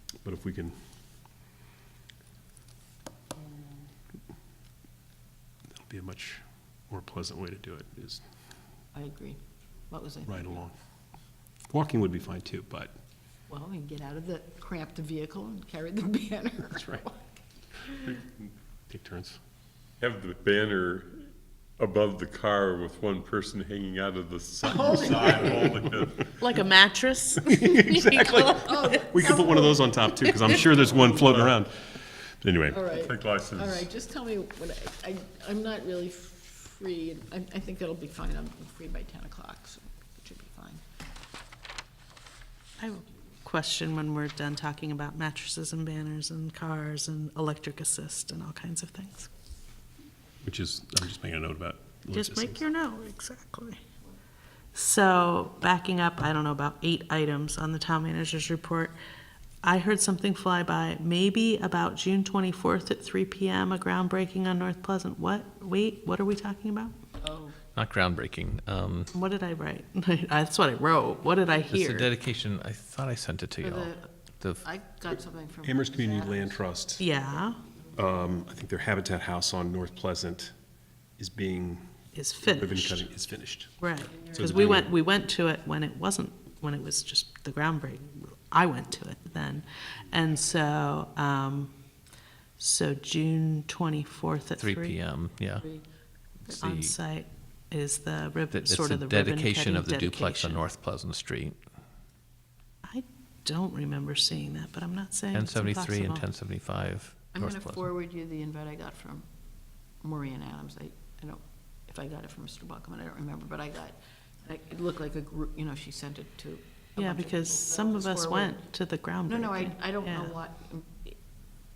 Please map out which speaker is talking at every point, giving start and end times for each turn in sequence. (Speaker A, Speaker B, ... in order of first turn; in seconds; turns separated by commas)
Speaker A: 0.2-0.8, Speaker A: 5.7-8.2, Speaker B: 8.9-10.6, Speaker A: 10.2-10.7, Speaker A: 11.7-12.9, Speaker B: 13.5-17.3, Speaker A: 16.8-17.0, Speaker A: 18.9-19.4, Speaker C: 20.0-26.4, Speaker B: 24.7-25.7, Speaker D: 26.4-29.4, Speaker A: 27.4-32.9, Speaker B: 28.4-30.0, Speaker D: 30.1-30.6, Speaker C: 31.1-31.5, Speaker B: 32.7-40.8, Speaker C: 32.9-33.9, Speaker D: 42.8-49.3, Speaker A: 50.4-52.6, Speaker D: 52.1-53.8, Speaker D: 54.7-59.0, Speaker D: 59.6-67.0, Speaker B: 67.2-67.5, Speaker E: 67.7-69.1, Speaker D: 69.1-72.1, Speaker E: 71.7-74.6, Speaker B: 73.6-76.6, Speaker A: 75.6-77.0, Speaker D: 77.0-77.6, Speaker A: 77.9-80.5, Speaker A: 81.2-81.8, Speaker D: 82.1-83.0, Speaker A: 82.4-83.8, Speaker D: 83.8-91.7, Speaker A: 84.3-84.9, Speaker D: 92.6-95.0, Speaker E: 94.6-95.7, Speaker E: 96.5-96.9, Speaker D: 96.6-100.6, Speaker E: 98.5-101.6, Speaker D: 102.8-106.2, Speaker E: 105.3-107.9, Speaker B: 107.3-109.3, Speaker B: 110.0-118.6, Speaker D: 117.0-120.3, Speaker B: 119.3-121.2